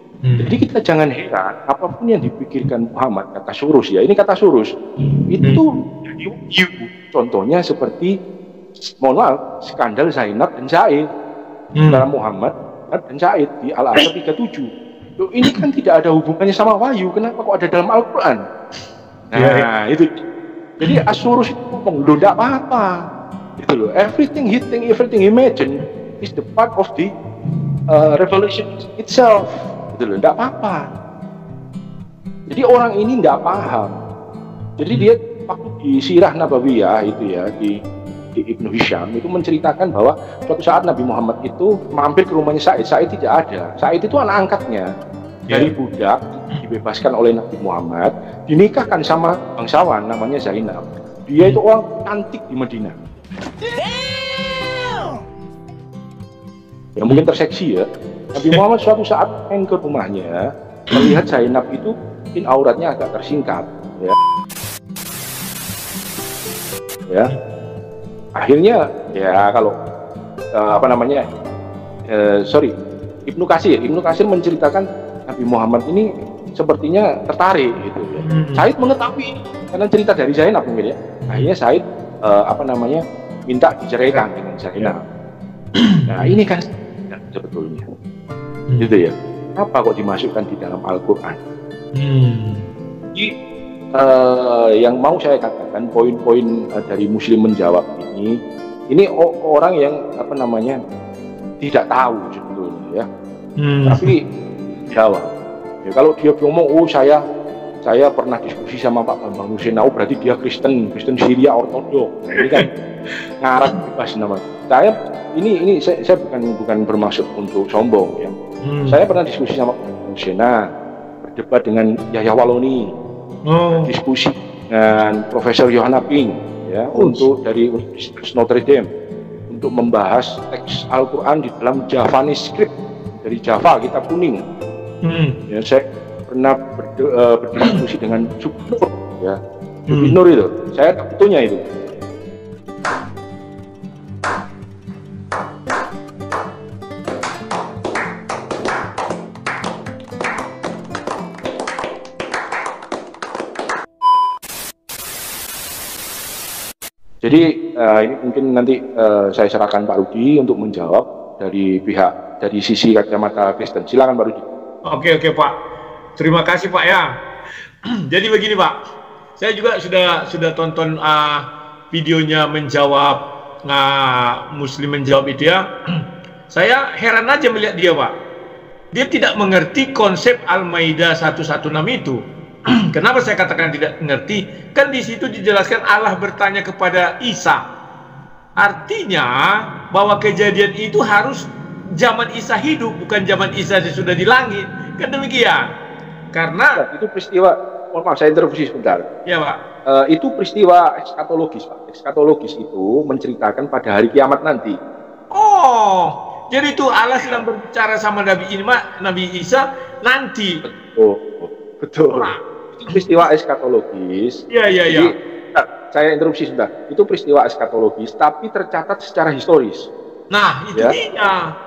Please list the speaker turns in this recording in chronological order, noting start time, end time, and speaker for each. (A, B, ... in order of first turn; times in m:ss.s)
0:00.2-0:00.6 A
0:00.4-0:04.7 B
0:05.0-0:05.6 A
0:05.3-0:08.1 B
0:09.0-0:11.1 B
0:11.8-0:12.0 A
0:11.9-0:18.4 B
0:19.3-0:20.1 B
0:19.4-0:19.6 A
0:20.8-0:22.9 B
0:23.6-0:27.1 B
0:27.9-0:30.8 B
0:32.5-0:34.0 B
0:34.8-0:37.8 B
0:38.4-0:44.9 B
0:45.5-0:52.9 B
0:57.0-1:04.2 B
1:00.9-1:01.2 A
1:08.4-1:09.8 B
1:10.6-1:11.2 B
1:12.1-1:12.7 B
1:13.3-1:25.0 B
1:18.2-1:18.6 A
1:25.8-1:26.4 A
1:26.1-1:27.8 B
1:28.8-1:31.4 B
1:32.0-1:32.7 A
1:34.0-1:38.4 B
1:38.9-1:40.8 B
1:41.6-1:43.1 B
1:43.6-1:44.1 A
1:43.9-1:44.2 B
1:44.9-1:45.3 B
1:45.8-1:47.2 B
1:47.8-1:52.7 B
1:53.4-1:58.3 B
1:58.6-1:59.0 A
1:58.9-2:00.6 B
2:01.2-2:02.9 B
2:03.5-2:03.9 A
2:03.8-2:08.9 B
2:06.9-2:07.2 A
2:09.5-2:14.4 B
2:15.0-2:15.4 A
2:15.5-2:19.4 B
2:19.9-2:20.2 A
2:19.9-2:21.6 B
2:37.2-2:44.4 B
2:44.9-2:45.5 A
2:46.2-2:47.1 A
2:48.1-2:48.8 A
2:49.4-2:55.6 A
2:56.5-2:58.1 A
2:58.9-3:02.2 A
3:02.9-3:07.6 A
3:08.6-3:09.4 A
3:09.9-3:11.4 A
3:12.0-3:15.7 A
3:16.3-3:16.8 A
3:16.8-3:19.1 B
3:19.2-3:19.6 A
3:19.9-3:24.8 B
3:25.3-3:30.6 A
3:30.6-3:39.9 B
3:32.1-3:32.4 A
3:34.5-3:35.1 A
3:40.3-3:41.4 A